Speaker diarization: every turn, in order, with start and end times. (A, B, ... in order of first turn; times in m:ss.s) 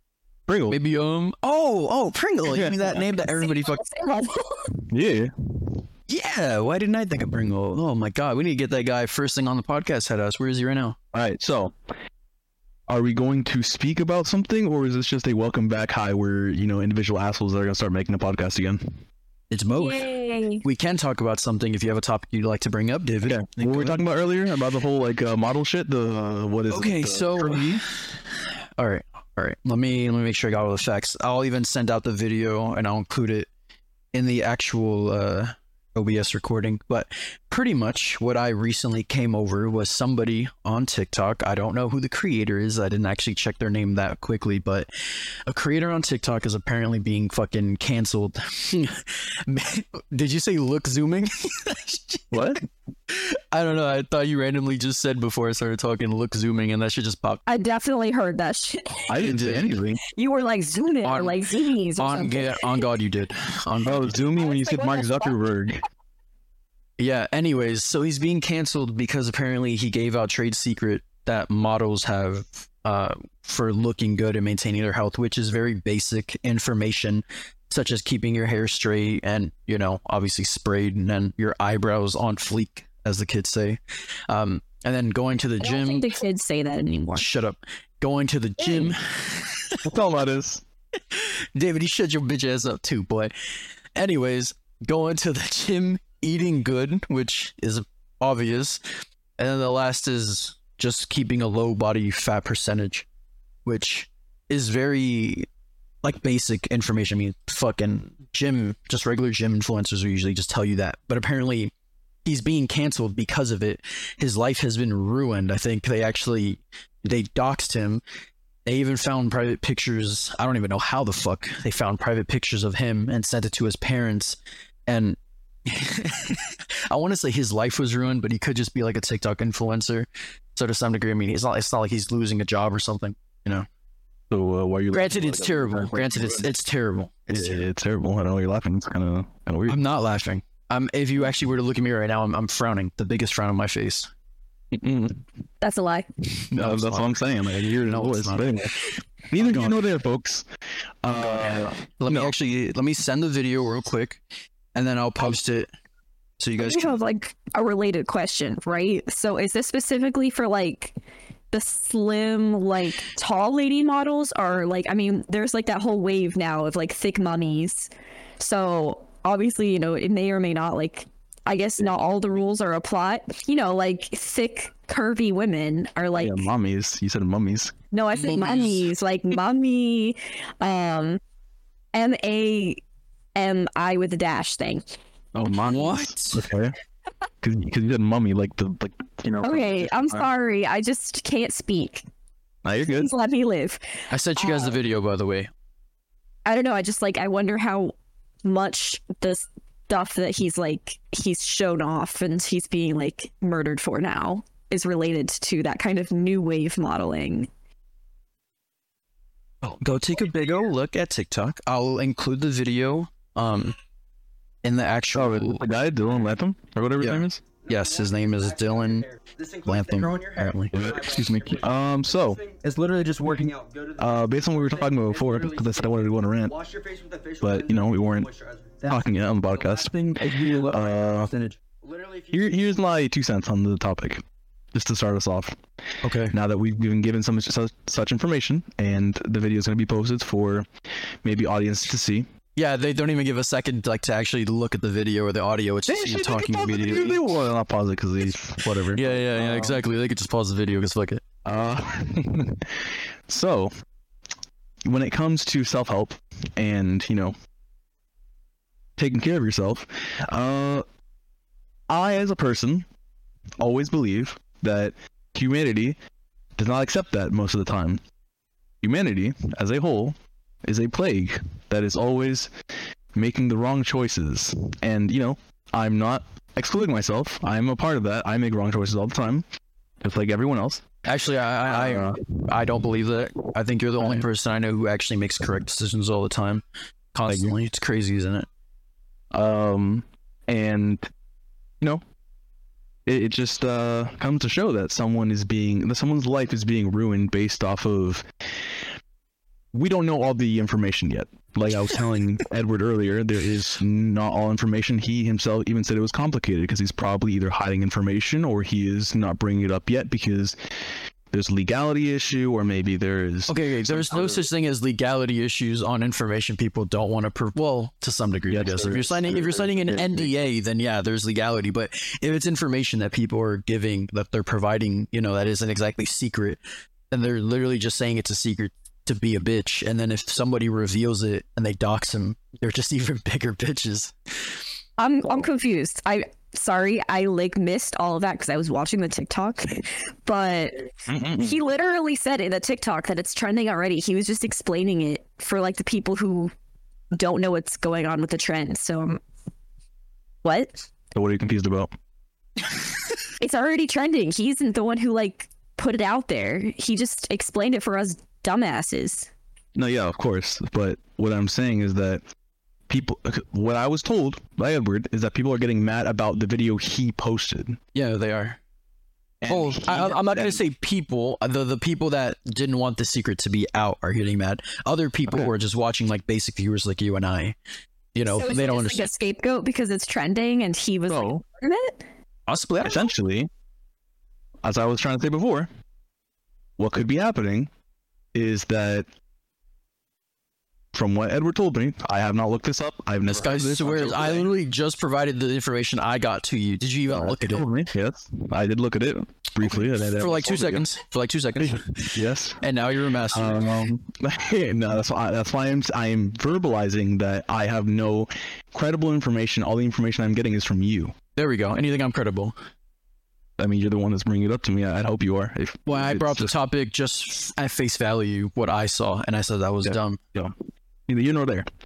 0:00.5-0:00.8 A
0:00.7-0:03.8 B
0:02.5-0:03.0 A
0:03.0-0:04.8 C
0:04.9-0:05.8 A
0:06.1-0:11.0 B
0:11.1-0:11.7 A
0:12.9-0:19.0 A
0:19.5-0:20.1 B
0:19.7-0:20.6 C
0:20.6-0:24.0 B
0:23.2-0:27.8 A
0:26.7-0:33.5 B
0:34.1-0:52.4 B
0:52.3-0:52.6 A
0:53.1-0:57.4 B
0:57.5-0:59.2 C
0:59.1-1:00.0 A
0:59.2-0:59.6 B
1:00.0-1:02.8 C
1:01.0-1:01.4 B
1:02.0-1:04.2 B
1:03.8-1:05.8 A
1:04.4-1:05.4 C
1:07.0-1:26.1 B
1:25.6-1:27.3 C
1:27.2-1:29.8 B
1:29.8-1:30.6 A
1:31.1-1:33.3 B
1:33.9-1:38.8 B
1:39.4-1:43.1 B
1:43.6-1:45.5 B
1:46.0-1:51.7 B
1:52.2-1:58.0 B
1:58.6-2:13.7 B
2:14.3-2:16.5 A
2:14.9-2:17.6 B
2:17.3-2:19.8 A
2:19.7-2:24.1 B
2:24.7-2:25.2 A
2:25.6-2:26.1 C
2:26.5-2:27.2 B
2:26.5-2:28.8 A
2:27.8-2:29.8 B
2:29.3-2:30.4 A
2:31.0-2:32.3 A
2:31.1-2:34.2 B
2:34.7-2:35.7 B
2:36.4-2:36.9 B
2:36.6-2:41.0 C
2:41.5-2:56.4 C
2:56.2-2:57.7 A
2:57.9-3:01.2 C
2:58.1-2:58.9 B
3:01.9-3:02.8 C
3:03.3-3:04.8 C
3:05.3-3:06.7 A
3:05.6-3:06.4 B
3:07.4-3:10.3 A
3:09.4-3:12.0 C
3:12.6-3:13.1 A
3:12.9-3:14.8 C
3:14.1-3:15.5 B
3:16.4-3:27.5 C
3:29.8-3:33.8 B
3:34.6-3:35.6 B
3:35.1-3:37.4 A
3:37.0-3:39.0 B
3:37.6-3:49.9 D
3:39.6-3:40.7 B
3:40.7-3:42.4 A
3:42.6-3:43.5 B
3:44.0-3:46.6 A
3:47.4-3:48.3 A
3:48.9-3:51.3 A
3:49.9-3:51.6 B
3:51.8-3:52.8 D
3:52.3-3:54.2 A
3:54.7-3:55.6 A
3:56.0-3:56.3 B
3:56.3-4:00.7 A
4:01.2-4:02.3 A
4:02.6-4:07.2 B
4:05.9-4:09.8 A
4:08.6-4:11.2 B
4:11.4-4:13.7 A
4:14.8-4:17.3 A
4:19.0-4:20.8 A
4:21.9-4:22.8 A
4:23.6-4:26.0 A
4:26.6-4:28.0 A
4:28.8-4:32.5 A
4:33.1-4:39.4 A
4:40.0-4:40.8 A
4:41.0-4:46.6 B
4:41.6-4:42.4 A
4:47.1-4:48.5 B
4:47.3-4:47.5 A
4:49.3-4:51.0 A
4:53.0-4:58.2 A
4:59.7-5:10.6 A
5:11.3-5:14.5 A
5:13.5-5:26.6 B
5:18.5-5:20.3 A
5:27.1-5:34.6 B
5:35.0-5:46.5 C
5:41.1-5:41.6 A
5:47.1-5:49.2 C
5:50.4-5:50.8 C
5:51.1-5:51.9 A
5:53.4-5:59.3 C
5:59.7-6:02.2 A
6:02.9-6:07.8 A
6:07.9-6:08.6 B
6:09.4-6:10.6 A
6:09.5-6:17.6 B
6:18.1-6:19.1 B
6:18.2-6:22.0 C
6:21.1-6:21.4 A
6:22.5-6:23.0 B
6:22.8-6:23.5 A
6:24.6-6:25.7 A
6:26.8-6:27.7 A
6:28.3-6:29.1 A
6:30.9-6:34.5 A
6:33.2-6:37.7 B
6:37.1-6:40.8 A
6:39.6-6:43.8 B
6:41.6-6:42.6 A
6:43.3-6:51.1 A
6:51.4-6:52.6 B
6:53.6-6:56.5 A
6:55.8-7:00.2 B
6:59.8-7:00.5 A
7:01.1-7:01.7 A